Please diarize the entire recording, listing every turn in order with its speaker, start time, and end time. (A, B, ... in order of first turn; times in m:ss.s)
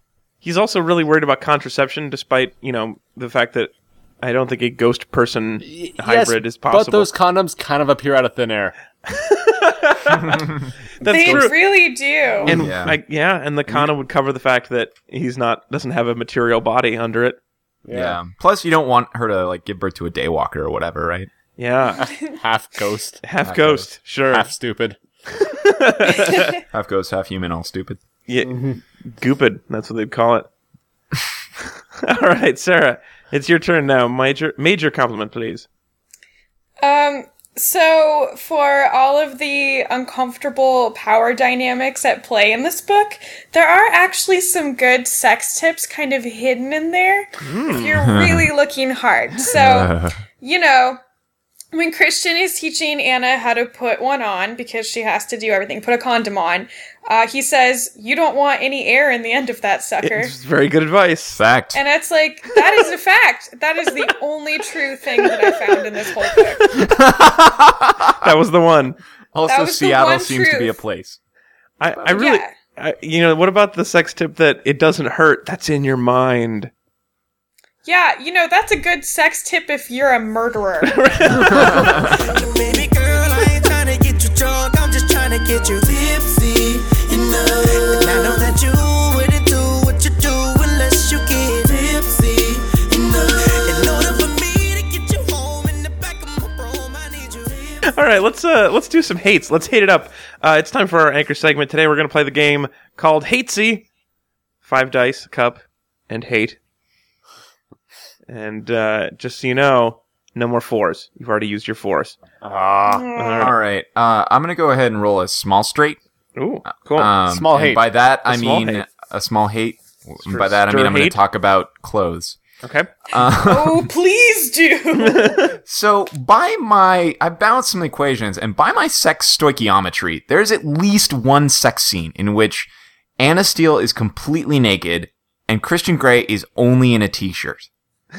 0:00.4-0:07.1 A
0:05.6-0:08.7 B
0:09.1-0:10.5 A
0:10.3-0:10.7 C
0:11.0-0:11.6 A
0:11.0-0:12.5 D
0:11.1-0:11.5 B
0:12.4-0:17.4 A
0:12.5-0:13.0 C
0:17.8-0:18.2 B
0:17.9-0:21.3 C
0:21.6-0:22.0 A
0:22.0-0:23.2 B
0:23.2-0:24.5 A
0:23.4-0:23.8 C
0:24.3-0:25.0 B
0:25.4-0:26.5 A
0:26.7-0:28.0 C
0:28.3-0:30.5 A
0:32.0-0:35.6 A
0:36.8-0:51.0 D
0:47.4-0:48.0 A
0:48.0-0:48.5 C
0:49.5-0:50.2 C
0:51.7-1:00.3 D
1:00.0-1:01.4 A
1:01.3-1:01.8 C
1:01.7-1:06.8 D
1:02.6-1:02.8 A
1:05.2-1:05.5 A
1:06.7-1:08.2 C
1:08.2-1:09.0 A
1:09.3-1:11.2 C
1:09.5-1:10.8 D
1:11.8-1:16.7 A
1:12.0-1:12.5 D
1:17.8-1:22.2 D
1:20.8-1:21.9 A
1:21.9-1:37.9 E
1:37.9-1:43.8 A
1:44.6-1:46.6 A
1:48.3-1:52.2 A
1:52.4-1:53.1 B
1:52.8-1:53.5 D
1:53.2-1:53.5 A
1:53.4-1:56.0 C
1:56.4-1:57.1 A
1:56.9-2:02.4 C
1:57.2-1:57.8 B
1:58.2-1:58.8 A
2:00.2-2:01.2 A
2:02.6-2:02.9 A
2:03.1-2:03.9 C
2:03.1-2:05.5 D
2:04.9-2:05.5 A
2:05.6-2:17.7 C